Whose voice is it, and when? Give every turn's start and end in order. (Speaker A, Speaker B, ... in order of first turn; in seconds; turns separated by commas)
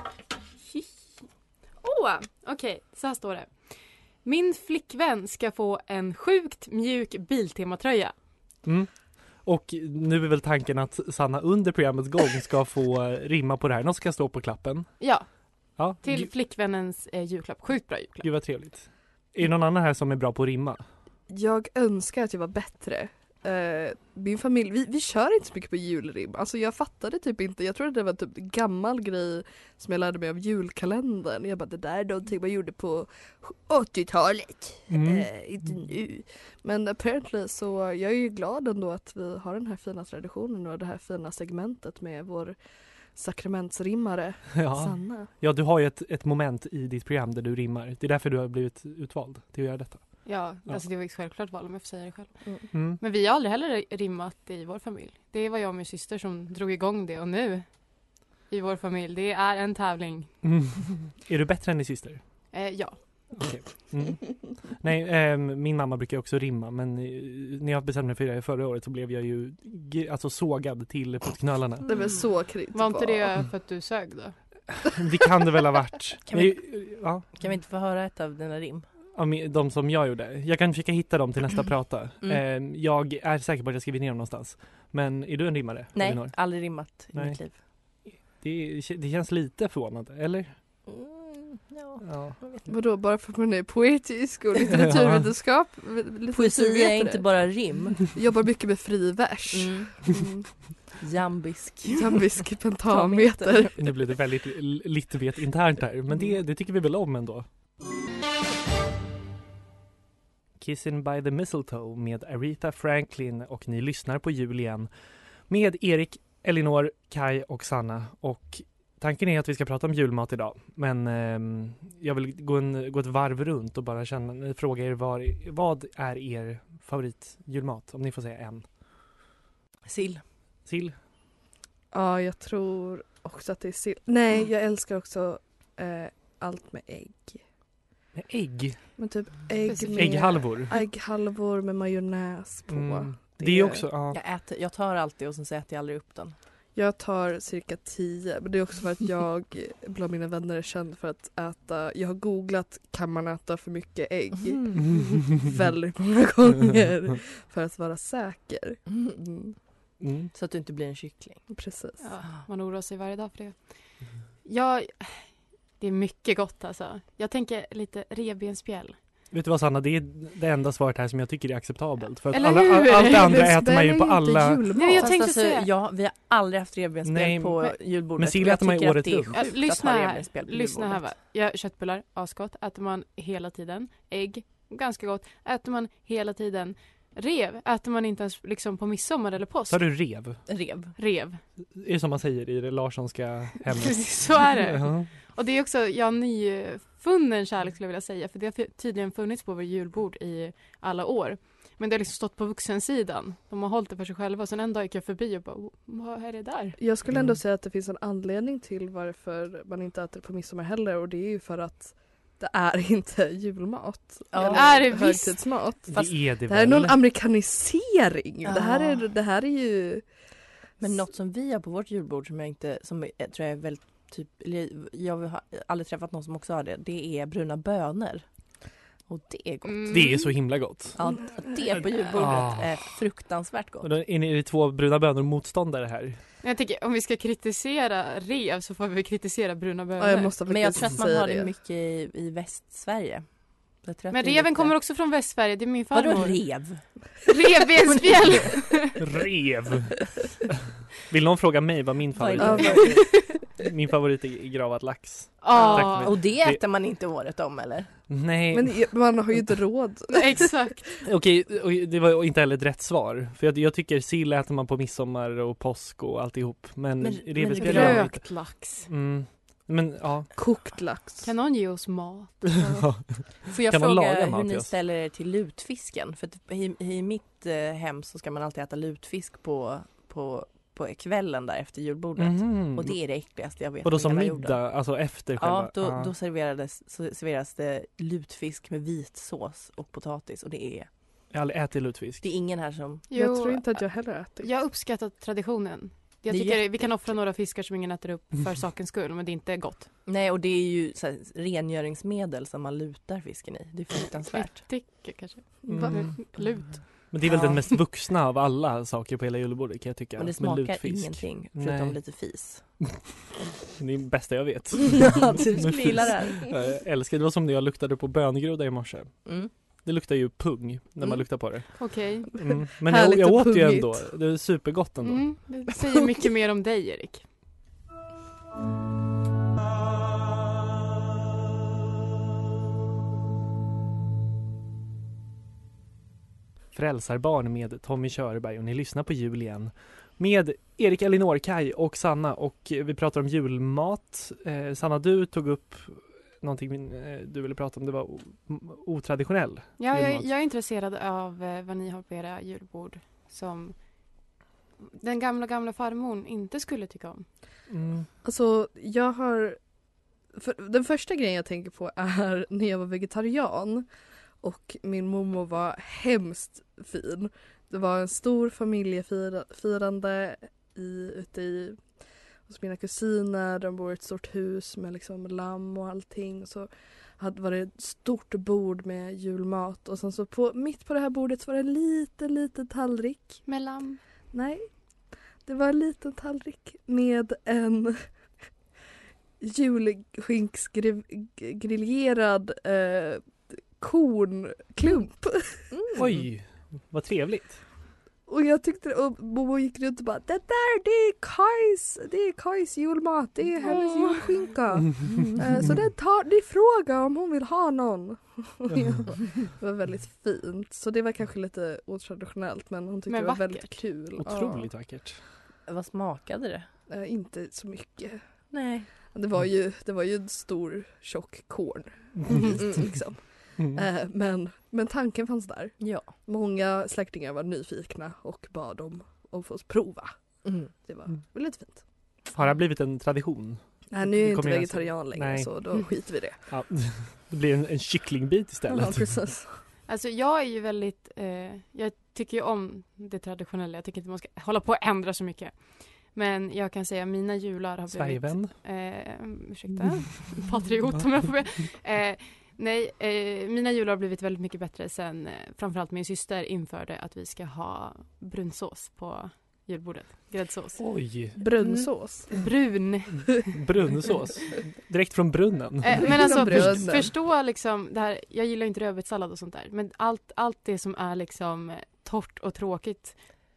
Speaker A: 1.8-3.7, Speaker A: 4.2-8.1, Speaker B: 8.6-14.9, Speaker A: 15.0-15.3, Speaker B: 15.8-16.3, Speaker A: 15.9-18.3, Speaker B: 18.2-20.8, Speaker C: 21.3-42.6, Speaker B: 34.9-35.3, Speaker C: 43.1-45.3, Speaker B: 44.6-50.8, Speaker A: 50.2-57.8, Speaker B: 52.7-53.0, Speaker A: 58.5-60.3, Speaker B: 60.4-62.2, Speaker A: 62.5-63.0, Speaker B: 63.3-72.0, Speaker C: 71.9-73.3, Speaker A: 72.7-74.4, Speaker B: 74.7-77.3, Speaker D: 76.3-76.5, Speaker D: 77.3-78.9, Speaker B: 79.2-90.6, Speaker D: 85.9-87.6, Speaker D: 90.9-92.7, Speaker B: 92.0-92.4, Speaker C: 92.7-97.3, Speaker B: 94.7-95.3, Speaker D: 96.3-98.1, Speaker C: 97.9-100.5, Speaker D: 99.5-100.1, Speaker D: 101.0-102.3, Speaker C: 101.9-103.8, Speaker D: 102.9-103.7, Speaker B: 103.8-107.5, Speaker B: 110.6-114.9, Speaker B: 115.5-128.7, Speaker D: 129.9-130.2, Speaker B: 130.7-130.9, Speaker C: 131.9-137.4, Speaker B: 138.2-138.8, Speaker C: 139.0-143.9, Speaker A: 139.7-140.1, Speaker B: 139.9-140.8, Speaker B: 142.7-144.2, Speaker D: 144.1-146.3, Speaker C: 146.8-159.6, Speaker B: 160.0-160.3, Speaker D: 160.3-161.5, Speaker C: 161.5-162.1, Speaker A: 162.0-163.7, Speaker A: 164.4-169.0, Speaker B: 169.3-174.7, Speaker A: 172.3-173.5, Speaker C: 173.0-175.1, Speaker A: 174.8-175.7, Speaker D: 175.0-181.1, Speaker B: 177.0-179.4, Speaker A: 179.3-189.8, Speaker B: 189.7-190.4, Speaker D: 190.5-190.9, Speaker A: 191.0-191.4, Speaker B: 191.8-195.1, Speaker A: 193.9-206.8, Speaker C: 206.8-220.1, Speaker B: 207.1-207.4, Speaker D: 214.3-214.9, Speaker A: 214.4-215.4, Speaker B: 215.9-217.0, Speaker D: 218.4-219.0, Speaker D: 220.8-228.3, Speaker D: 229.1-230.3, Speaker A: 229.7-230.3, Speaker B: 229.9-231.0, Speaker D: 231.0-233.9, Speaker C: 231.1-232.0, Speaker B: 232.1-232.9, Speaker B: 233.8-236.2, Speaker A: 236.4-240.4, Speaker C: 240.0-241.5, Speaker D: 240.5-244.8, Speaker A: 244.1-246.4, Speaker D: 245.9-246.8, Speaker A: 247.3-249.0, Speaker D: 247.9-248.5, Speaker B: 249.0-256.6, Speaker D: 252.2-253.2, Speaker C: 252.4-253.2, Speaker A: 255.4-256.2, Speaker D: 255.5-257.9, Speaker B: 258.1-259.2, Speaker C: 258.5-260.7, Speaker A: 260.1-260.8, Speaker B: 261.0-270.4, Speaker D: 267.0-268.1, Speaker A: 267.6-268.9, Speaker C: 270.4-271.3, Speaker A: 271.2-272.5, Speaker C: 272.6-272.9, Speaker B: 272.6-274.7, Speaker D: 273.5-284.6, Speaker B: 282.2-283.2, Speaker B: 283.8-286.1, Speaker D: 285.4-290.9, Speaker B: 291.3-292.2, Speaker D: 292.2-293.1, Speaker A: 293.1-299.9, Speaker C: 293.1-294.5, Speaker D: 296.3-297.0, Speaker D: 300.1-304.7, Speaker A: 304.3-307.1, Speaker C: 305.6-306.1, Speaker B: 305.7-313.1, Speaker D: 306.4-307.7, Speaker D: 310.2-312.7, Speaker B: 313.6-325.3, Speaker D: 314.9-316.5, Speaker D: 319.3-319.5, Speaker A: 321.8-322.3, Speaker C: 322.9-324.1, Speaker A: 325.0-327.3, Speaker B: 336.7-350.3, Speaker A: 349.8-353.9, Speaker A: 354.8-357.3, Speaker B: 357.7-358.1, Speaker C: 358.2-359.6, Speaker C: 360.3-363.9, Speaker C: 364.4-371.8, Speaker C: 372.5-383.4, Speaker A: 383.5-384.0, Speaker C: 384.3-384.7, Speaker C: 385.4-388.1, Speaker C: 389.4-395.7, Speaker D: 395.7-396.3, Speaker B: 395.9-397.6, Speaker C: 398.3-414.7, Speaker A: 403.6-404.5, Speaker A: 413.1-413.8, Speaker B: 414.2-415.2, Speaker D: 415.7-416.7, Speaker C: 416.9-418.2, Speaker D: 418.5-418.9, Speaker C: 419.1-430.1, Speaker D: 422.6-422.9, Speaker B: 423.6-423.8, Speaker D: 425.8-426.1, Speaker D: 430.4-430.7, Speaker C: 430.7-431.8, Speaker B: 432.3-435.7, Speaker C: 433.9-436.4, Speaker B: 436.5-439.1, Speaker C: 438.7-439.6, Speaker A: 439.9-463.6, Speaker B: 447.9-448.6, Speaker B: 460.8-461.4, Speaker C: 461.4-462.4, Speaker B: 463.5-466.9, Speaker A: 465.8-473.2, Speaker C: 465.9-467.1